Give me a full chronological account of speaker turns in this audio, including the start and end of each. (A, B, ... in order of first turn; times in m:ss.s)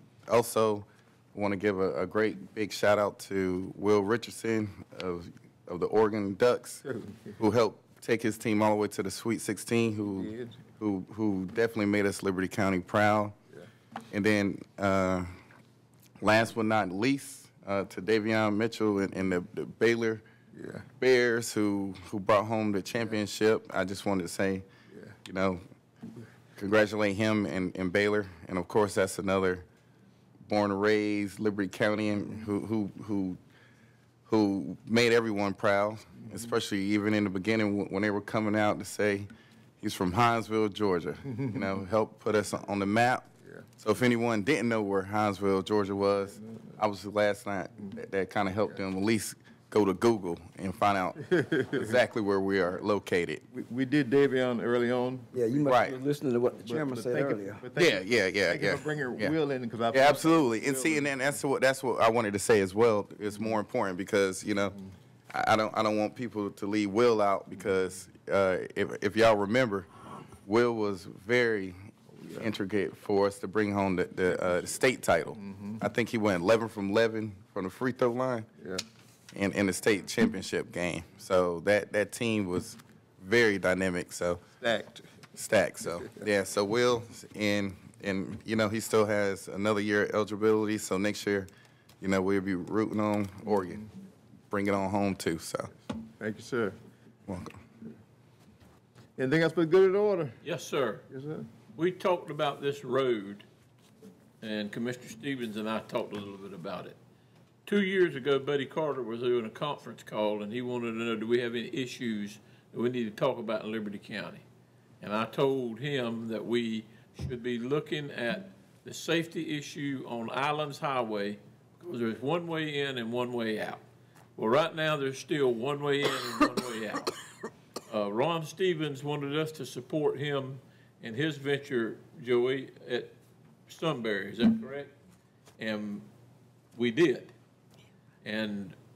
0:00.3-0:06.8 A
0:06.8-0:07.4 B
0:07.4-0:13.4 A
0:10.0-0:10.6 B
0:14.1-0:15.3 A
0:16.2-0:20.2 A
0:20.5-0:20.9 B
0:21.0-0:24.7 A
0:25.2-0:25.6 A
0:26.6-0:29.6 A
0:30.4-0:33.4 A
0:34.2-0:39.3 A
0:36.2-0:36.5 B
0:39.8-0:51.2 A
0:41.4-0:41.8 B
0:51.3-0:52.0 B
0:51.7-0:53.4 A
0:53.5-0:55.9 B
0:55.3-0:57.6 C
0:55.7-0:56.0 A
0:56.6-1:01.2 B
0:57.7-0:59.4 A
0:59.9-1:04.7 A
1:05.3-1:09.9 A
1:10.4-1:18.5 A
1:12.2-1:12.5 B
1:14.3-1:14.8 B
1:15.4-1:15.8 B
1:19.3-1:24.4 A
1:24.6-1:25.1 B
1:25.3-1:31.5 A
1:25.8-1:26.2 B
1:32.0-1:33.8 A
1:33.5-1:33.8 B
1:34.5-1:35.7 A
1:36.2-1:36.8 B
1:37.3-1:37.6 A
1:39.2-1:40.4 B
1:40.4-1:41.0 D
1:41.1-1:41.5 B
1:41.7-1:43.4 D
1:44.4-1:47.0 D
1:47.6-1:54.4 D
1:55.0-2:03.8 D
2:04.4-2:07.1 D
2:07.9-2:13.2 D
2:13.7-2:14.9 D
2:15.6-2:16.0 D
2:16.7-2:17.3 D
2:18.2-2:18.7 D